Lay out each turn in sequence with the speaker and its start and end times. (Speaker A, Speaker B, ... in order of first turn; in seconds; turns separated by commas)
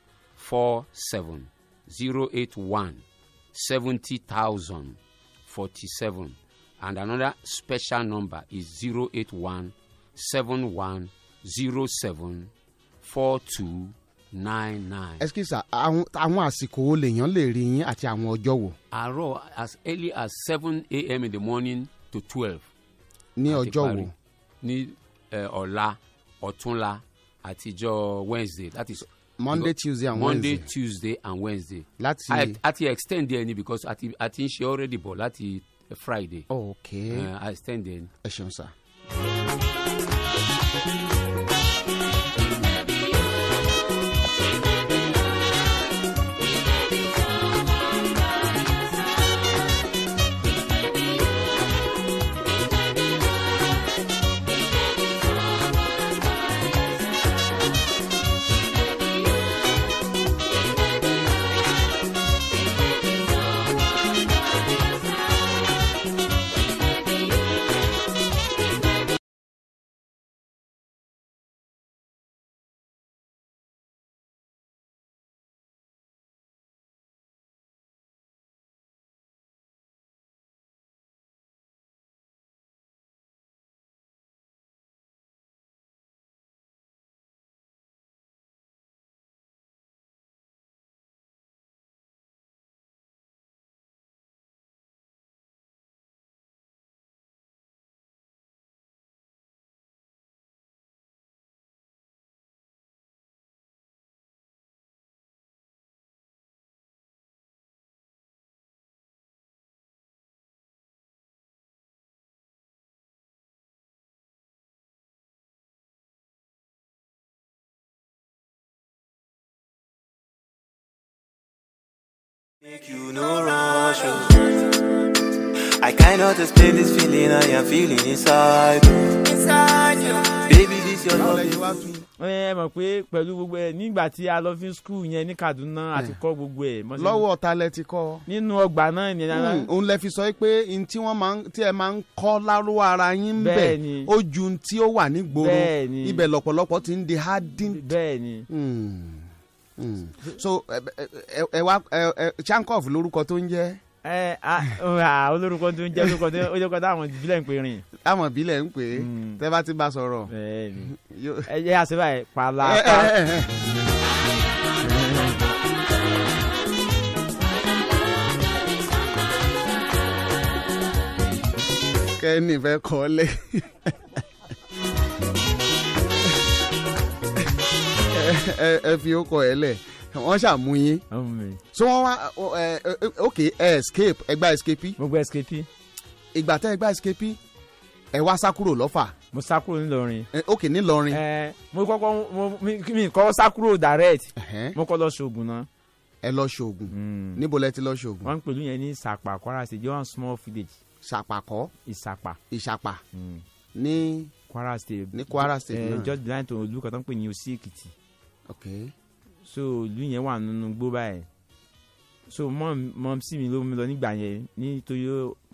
Speaker A: 0.4-12.5, Speaker A: 13.0-15.2, Speaker B: 15.2-18.8, Speaker A: 18.9-22.7, Speaker B: 23.4-24.1, Speaker A: 23.5-24.1, Speaker A: 24.6-36.5, Speaker B: 29.4-30.7, Speaker B: 32.0-32.6, Speaker B: 36.5-37.3, Speaker A: 37.1-38.1, Speaker B: 38.2-38.7, Speaker C: 122.6-124.6, Speaker C: 125.8-131.5, Speaker B: 131.1-132.1, Speaker D: 132.2-137.2, Speaker B: 136.9-138.2, Speaker D: 138.3-139.7, Speaker B: 139.3-147.8, Speaker D: 143.4-144.1, Speaker D: 145.3-146.2, Speaker D: 147.7-148.5, Speaker B: 148.5-153.8, Speaker D: 154.0-157.8, Speaker B: 158.0-160.3, Speaker D: 158.9-159.4, Speaker D: 160.3-160.9, Speaker B: 160.9-161.5, Speaker D: 161.4-163.1, Speaker B: 162.6-163.6, Speaker D: 164.8-165.4, Speaker B: 172.2-174.2, Speaker B: 178.1-181.1, Speaker D: 181.1-181.6, Speaker B: 181.7-185.0, Speaker D: 185.0-185.7, Speaker B: 186.3-187.4, Speaker B: 188.1-189.1, Speaker D: 189.3-190.3, Speaker B: 190.3-191.2, Speaker D: 191.1-195.7, Speaker B: 194.4-194.8, Speaker B: 196.2-198.3, Speaker D: 196.9-197.4, Speaker D: 198.2-200.8, Speaker B: 201.0-201.7, Speaker D: 201.8-202.4, Speaker B: 202.5-203.0, Speaker D: 203.1-203.4, Speaker B: 203.7-204.3, Speaker D: 204.5-207.9, Speaker B: 205.1-206.1, Speaker B: 208.5-208.9, Speaker D: 209.4-211.3, Speaker D: 212.3-215.4